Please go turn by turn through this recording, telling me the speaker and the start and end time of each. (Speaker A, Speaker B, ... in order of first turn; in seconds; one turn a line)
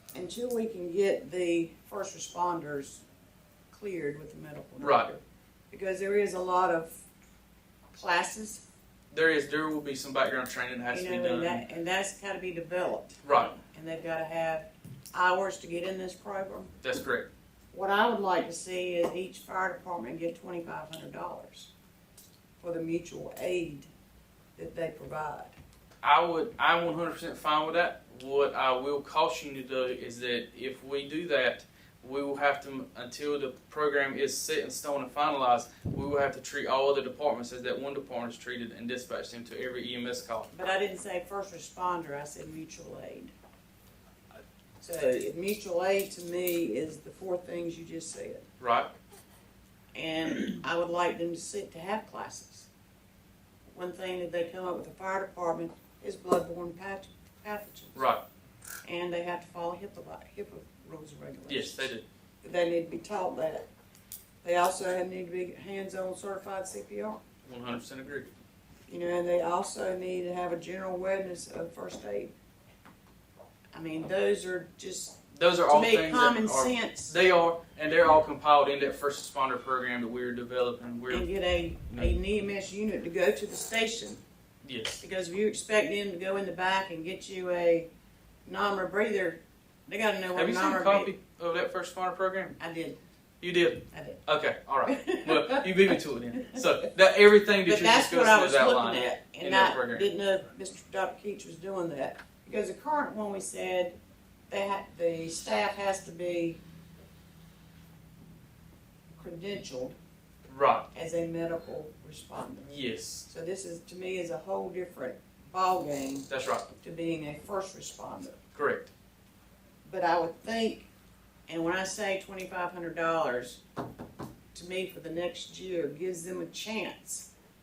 Speaker A: 0.1-3.0
Speaker A: 3.7-7.0
Speaker B: 4.8-5.1
Speaker A: 7.9-8.6
Speaker B: 9.1-11.7
Speaker A: 10.9-16.7
Speaker B: 13.2-13.6
Speaker B: 16.8-17.3
Speaker A: 17.7-21.7
Speaker A: 22.6-23.9
Speaker A: 24.6-25.6
Speaker B: 26.0-40.5
Speaker A: 40.5-43.3
Speaker A: 44.8-48.5
Speaker B: 48.6-48.9
Speaker A: 49.9-52.7
Speaker A: 53.7-58.1
Speaker B: 58.0-58.2
Speaker A: 58.9-63.7
Speaker B: 61.5-62.0
Speaker A: 64.4-67.2
Speaker B: 67.5-68.3
Speaker A: 68.9-72.3
Speaker A: 73.7-77.2
Speaker B: 75.3-81.3
Speaker A: 81.1-84.2
Speaker B: 81.9-82.2
Speaker B: 84.6-85.0
Speaker A: 85.0-87.9
Speaker A: 88.5-91.1
Speaker B: 90.3-92.6
Speaker A: 92.6-93.0
Speaker B: 93.4-100.1
Speaker A: 93.9-94.2
Speaker A: 94.9-96.7
Speaker A: 97.7-104.0
Speaker A: 104.5-106.6
Speaker A: 109.1-110.0
Speaker B: 110.5-110.9
Speaker A: 110.9-112.8
Speaker B: 112.7-113.3
Speaker A: 113.3-116.3
Speaker B: 116.3-116.7
Speaker A: 116.8-118.4
Speaker B: 118.5-118.9
Speaker A: 119.8-120.9
Speaker A: 121.5-123.6
Speaker A: 124.5-127.3